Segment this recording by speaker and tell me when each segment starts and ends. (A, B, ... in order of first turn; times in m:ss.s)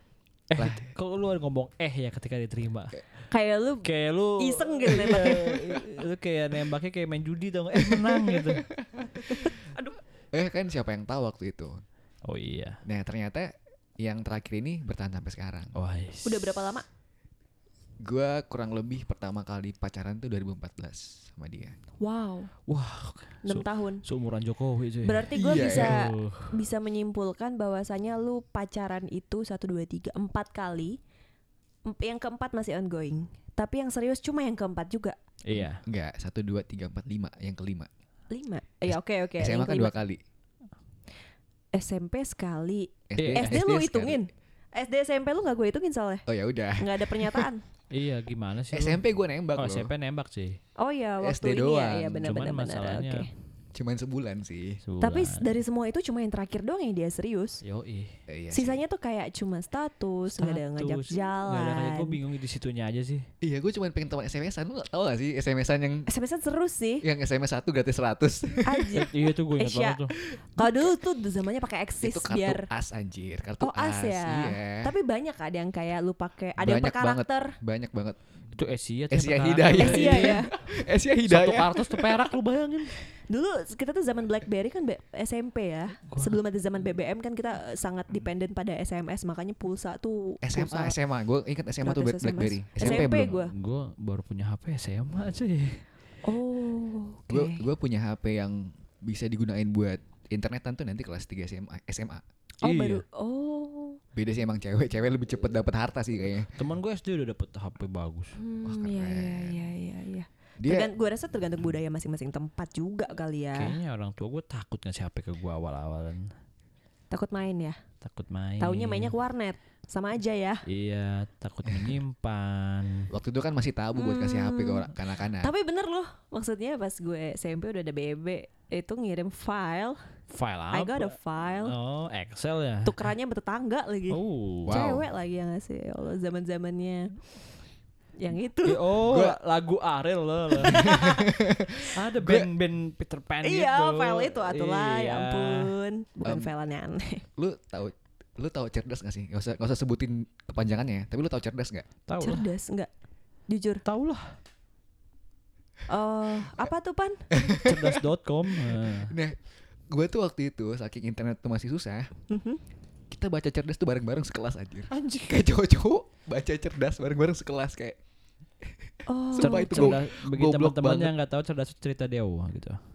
0:00.5-0:03.3 A
0:00.6-0:00.9 B
0:03.3-0:05.8 C
0:03.8-0:08.6 A
0:08.1-0:09.3 B
0:09.3-0:10.0 C
0:10.3-0:11.8 B
0:12.2-0:12.8 A
0:12.8-0:15.8 B
0:15.8-0:16.7 A
0:16.2-0:16.8 C
0:18.0-0:21.8 B
0:22.0-0:22.5 C
0:22.7-0:26.5 A
0:23.4-0:24.0 C
0:25.0-0:31.0 C
0:25.4-0:26.0 B
0:31.9-0:35.2 C
0:35.5-0:35.8 A
0:35.5-0:37.9 B
0:38.3-0:39.9 C
0:38.9-0:40.2 B
0:41.7-0:47.7 C
0:43.1-0:44.2 B
0:43.2-0:43.6 A
0:46.3-0:47.5 B
0:47.9-0:49.0 A
0:48.7-0:49.9 B
0:49.6-0:50.6 A
0:50.8-0:53.3 C
0:51.2-0:52.3 B
0:52.2-0:53.3 A
0:53.7-0:54.8 B
0:54.8-0:55.4 A
0:55.0-0:57.6 C
0:57.6-0:58.2 A
0:58.3-0:58.8 B
0:58.5-1:02.2 C
1:00.3-1:03.3 A
1:03.4-1:06.1 B
1:06.1-1:07.1 C
1:07.0-1:09.1 B
1:08.7-1:12.7 C
1:09.0-1:10.1 A
1:10.3-1:10.7 B
1:12.0-1:14.9 B
1:13.6-1:17.6 C
1:16.6-1:18.2 B
1:18.5-1:20.6 A
1:19.1-1:22.0 B
1:19.8-1:20.5 C
1:21.2-1:23.0 A
1:23.0-1:31.0 C
1:26.0-1:26.4 A
1:30.4-1:33.4 B
1:31.8-1:33.5 C
1:32.8-1:35.9 A
1:36.2-1:37.6 C
1:37.3-1:42.2 B
1:42.6-1:43.0 A
1:42.6-1:44.0 C
1:44.2-1:46.5 B
1:46.6-1:48.4 A
1:48.4-1:53.8 C
1:48.6-1:49.6 B
1:50.6-1:50.9 B
1:53.5-1:56.3 A
1:57.1-1:57.8 C
1:58.0-1:59.1 A
1:58.6-2:00.6 C
2:00.7-2:03.1 A
2:01.7-2:02.0 B
2:03.1-2:05.5 B
2:04.0-2:10.1 C
2:10.3-2:13.1 A
2:10.7-2:11.8 C
2:12.8-2:17.3 C
2:14.1-2:14.8 A
2:14.7-2:15.1 B
2:18.2-2:18.8 C
2:18.6-2:21.1 A
2:19.0-2:19.4 B
2:20.8-2:21.1 C
2:20.8-2:22.5 B
2:21.9-2:25.7 A
2:23.4-2:27.3 C
2:26.2-2:26.5 B
2:27.4-2:31.9 B
2:32.1-2:32.5 A
2:32.2-2:32.9 C
2:33.5-2:33.8 C
2:33.8-2:34.4 A
2:35.9-2:37.3 C
2:37.3-2:37.8 B
2:37.6-2:39.1 A
2:38.8-2:39.4 B
2:39.9-2:42.1 B
2:42.3-2:42.6 C
2:43.1-2:48.0 B
2:44.9-2:45.4 A
2:48.6-2:51.1 B
2:49.1-2:50.0 C
2:49.4-2:52.8 A